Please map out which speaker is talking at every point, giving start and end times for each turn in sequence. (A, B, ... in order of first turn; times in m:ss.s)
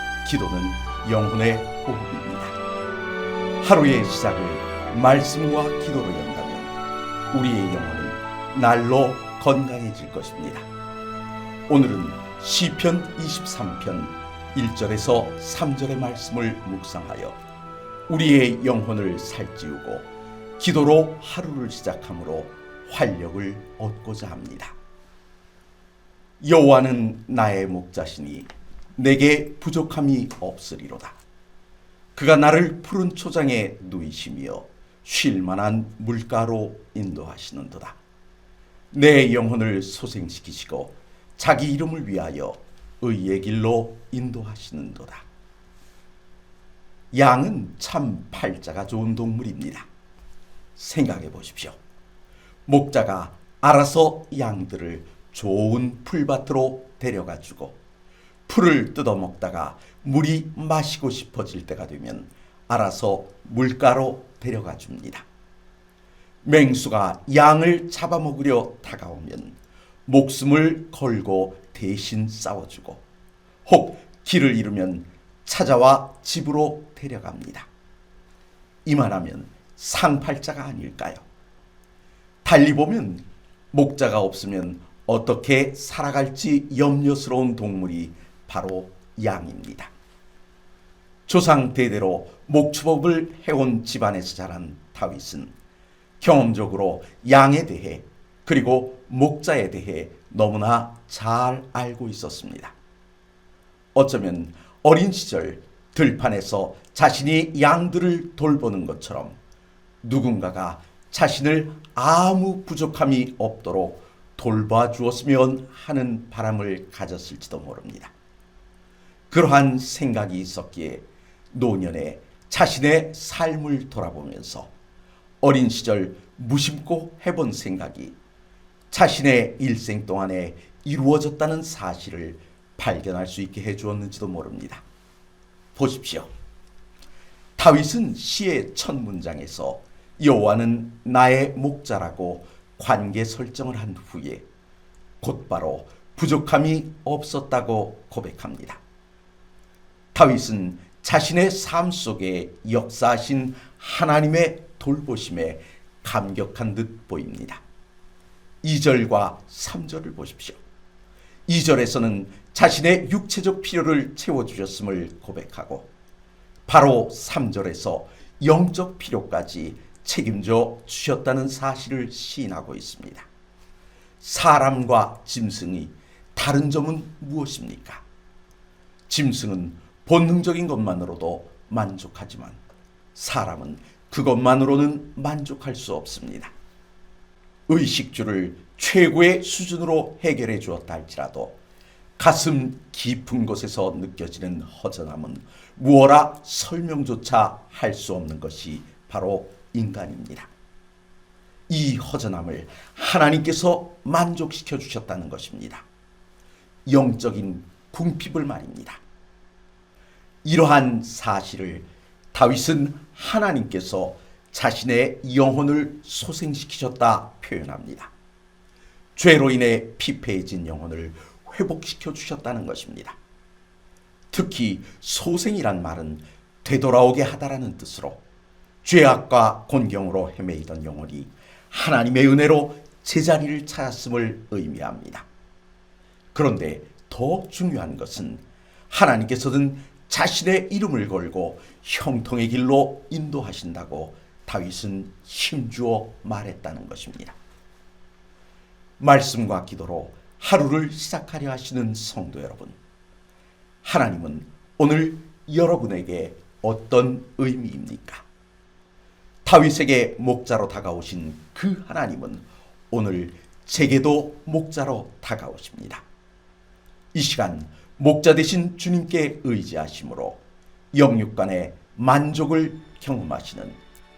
0:00.2-0:02.6 A
0:03.6-0:06.7 A
0:07.3-0:10.7 A
0:11.7-0:17.4 A
0:18.1-0:20.1 A
0:20.6-0:24.8 A
0:26.4-0:31.2 A
0:32.1-0:38.0 A
0:38.9-0:45.2 A
0:47.1-0:49.9 A
0:50.8-0:51.8 A
0:52.6-0:57.7 A
0:58.5-1:05.2 A
1:06.4-1:13.0 A
1:13.6-1:17.7 A
1:18.8-1:21.2 A
1:22.4-1:29.9 A
1:31.3-1:35.5 A
1:36.2-1:42.7 A
1:43.9-1:49.4 A
1:50.0-1:58.1 A
1:59.3-2:04.7 A
2:05.4-2:08.1 A
2:08.9-2:14.8 A
2:15.7-2:16.3 A
2:17.6-2:24.4 A
2:25.2-2:28.8 A
2:30.1-2:37.6 A
2:38.6-2:40.6 A
2:41.5-2:45.9 A
2:46.7-2:53.3 A
2:54.2-2:58.0 A
2:59.1-3:02.6 A
3:03.1-3:06.5 A
3:07.7-3:11.5 A
3:12.2-3:20.5 A
3:21.7-3:25.8 A
3:26.8-3:29.0 A
3:30.4-3:38.1 A
3:39.1-3:43.2 A
3:44.3-3:48.2 A
3:48.8-3:55.2 A
3:56.3-4:07.4 A
4:09.0-4:12.8 A
4:13.8-4:18.2 A
4:19.4-4:26.0 A
4:27.1-4:30.4 A
4:30.9-4:33.8 A